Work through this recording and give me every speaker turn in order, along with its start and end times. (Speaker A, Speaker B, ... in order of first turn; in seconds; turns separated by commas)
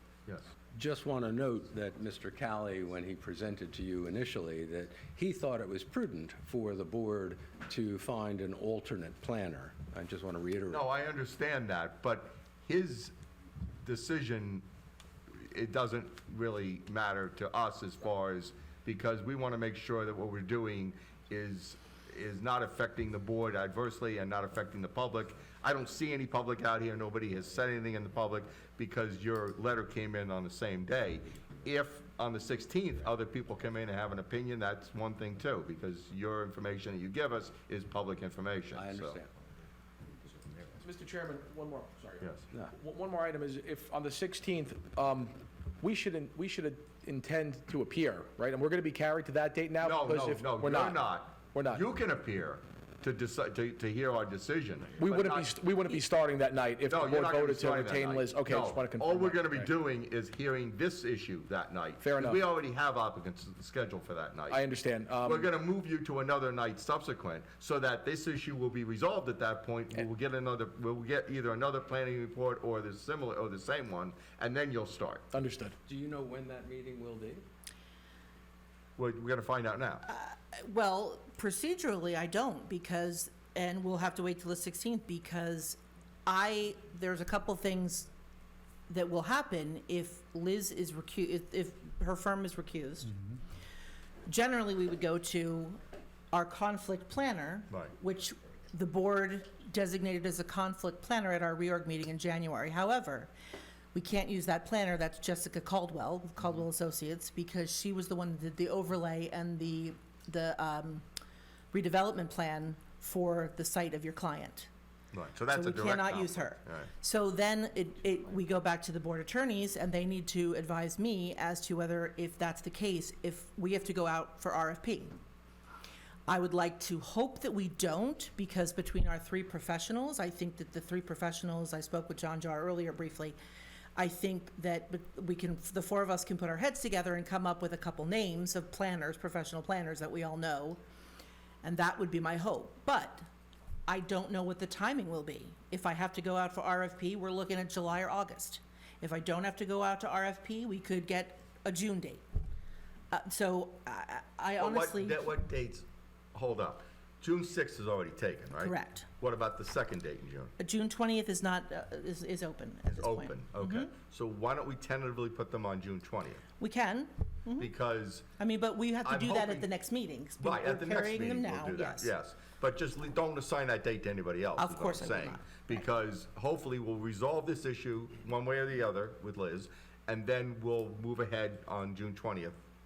Speaker A: 0.3-0.5, Speaker B: 0.7-10.8, Speaker A: 10.7-13.1, Speaker A: 13.8-14.7, Speaker A: 15.4-39.2, Speaker B: 38.7-39.3, Speaker C: 40.8-51.8, Speaker A: 42.2-42.5, Speaker A: 49.8-55.6, Speaker C: 55.0-59.7, Speaker A: 56.9-64.7, Speaker C: 62.0-62.4, Speaker C: 64.5-65.5, Speaker A: 65.2-75.3, Speaker C: 75.3-75.8, Speaker B: 75.9-77.5, Speaker A: 79.0-80.0, Speaker D: 80.0-88.1, Speaker D: 88.9-93.2, Speaker D: 94.2-103.3, Speaker D: 103.9-111.0, Speaker D: 111.7-114.7, Speaker A: 115.1-116.9, Speaker D: 115.5-125.2, Speaker D: 126.3-133.4, Speaker D: 134.0-140.8, Speaker D: 141.6-143.3, Speaker D: 143.9-152.2, Speaker D: 153.1-155.3, Speaker A: 154.6-160.5, Speaker D: 158.6-159.1, Speaker D: 160.6-163.9, Speaker A: 162.9-166.4, Speaker D: 166.6-167.7, Speaker A: 167.6-168.3, Speaker D: 168.4-172.1, Speaker A: 169.0-169.7, Speaker A: 170.4-182.6, Speaker D: 174.6-175.8